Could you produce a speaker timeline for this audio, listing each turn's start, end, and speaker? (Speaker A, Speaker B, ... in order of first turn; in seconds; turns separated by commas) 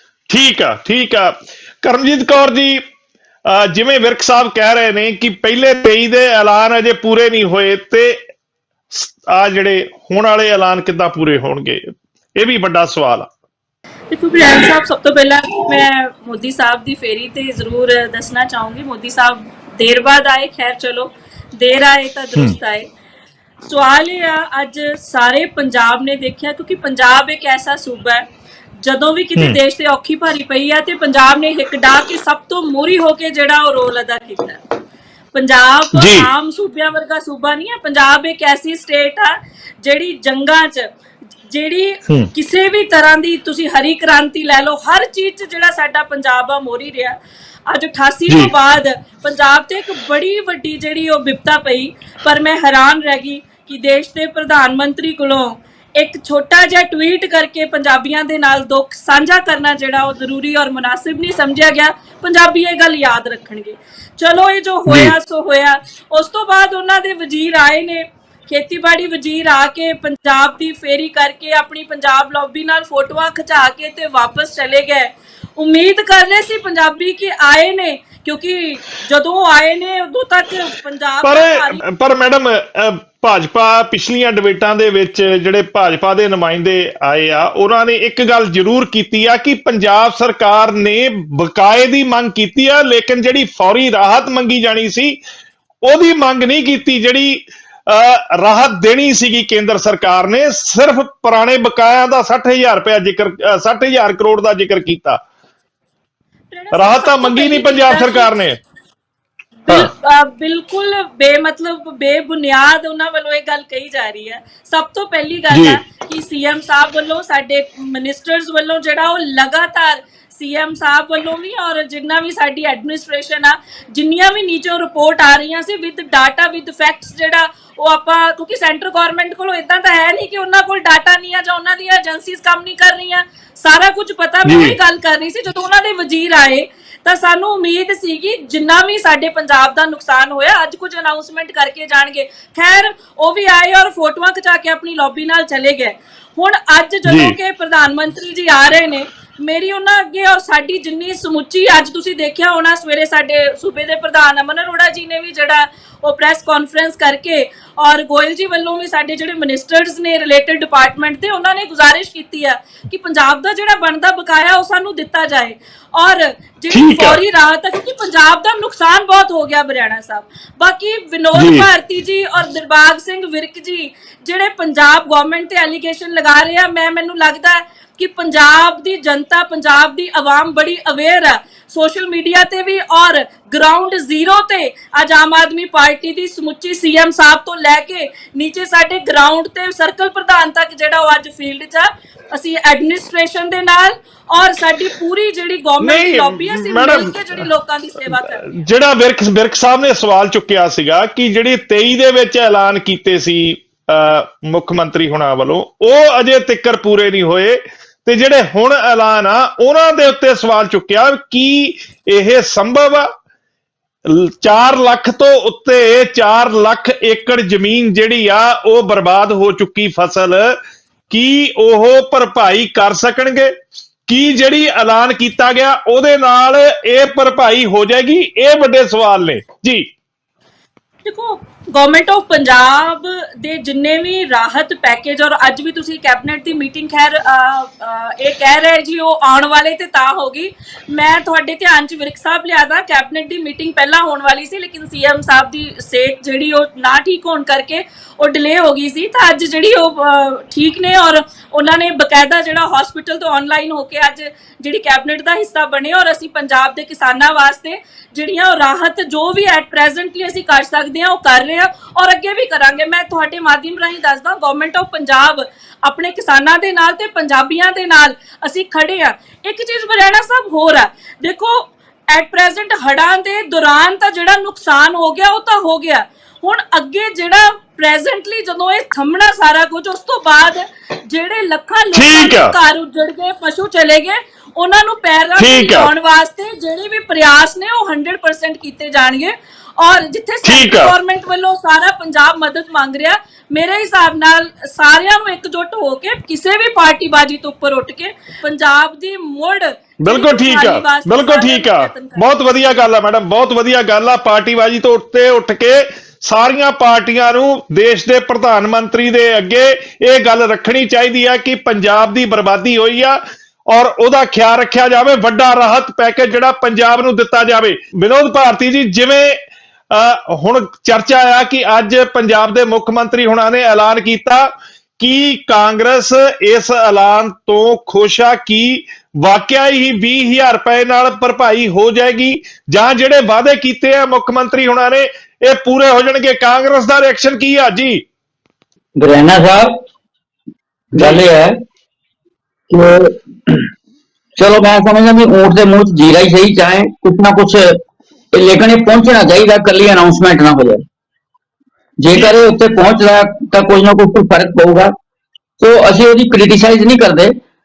Speaker A: 0.3-2.8, Speaker A: 3.5-8.2, Speaker A: 8.9-13.3, Speaker B: 14.1-22.9, Speaker B: 23.6-28.2, Speaker B: 28.8-34.6, Speaker B: 35.3-40.9, Speaker A: 35.9-36.3, Speaker B: 41.5-47.2, Speaker B: 47.7-81.8, Speaker A: 64.9-65.2, Speaker A: 81.2-95.2, Speaker A: 95.8-105.2, Speaker B: 106.5-108.5, Speaker A: 106.7-108.6, Speaker B: 109.7-198.5, Speaker A: 115.5-115.8, Speaker A: 134.5-134.8, Speaker A: 147.1-147.4, Speaker A: 166.7-167.2, Speaker A: 171.3-171.7, Speaker A: 195.8-197.4, Speaker A: 198.4-213.1, Speaker A: 214.1-220.6, Speaker A: 221.1-223.5, Speaker A: 224.1-229.9, Speaker B: 231.1-302.4, Speaker A: 281.9-282.5, Speaker A: 285.4-285.9, Speaker A: 290.4-290.9, Speaker A: 300.0-319.4, Speaker A: 319.9-338.0, Speaker C: 339.0-339.9, Speaker C: 340.9-341.6, Speaker A: 340.9-341.2, Speaker C: 342.7-343.7, Speaker C: 344.4-347.8, Speaker C: 348.3-350.8, Speaker C: 352.0-354.9, Speaker A: 352.1-352.4, Speaker C: 355.6-357.4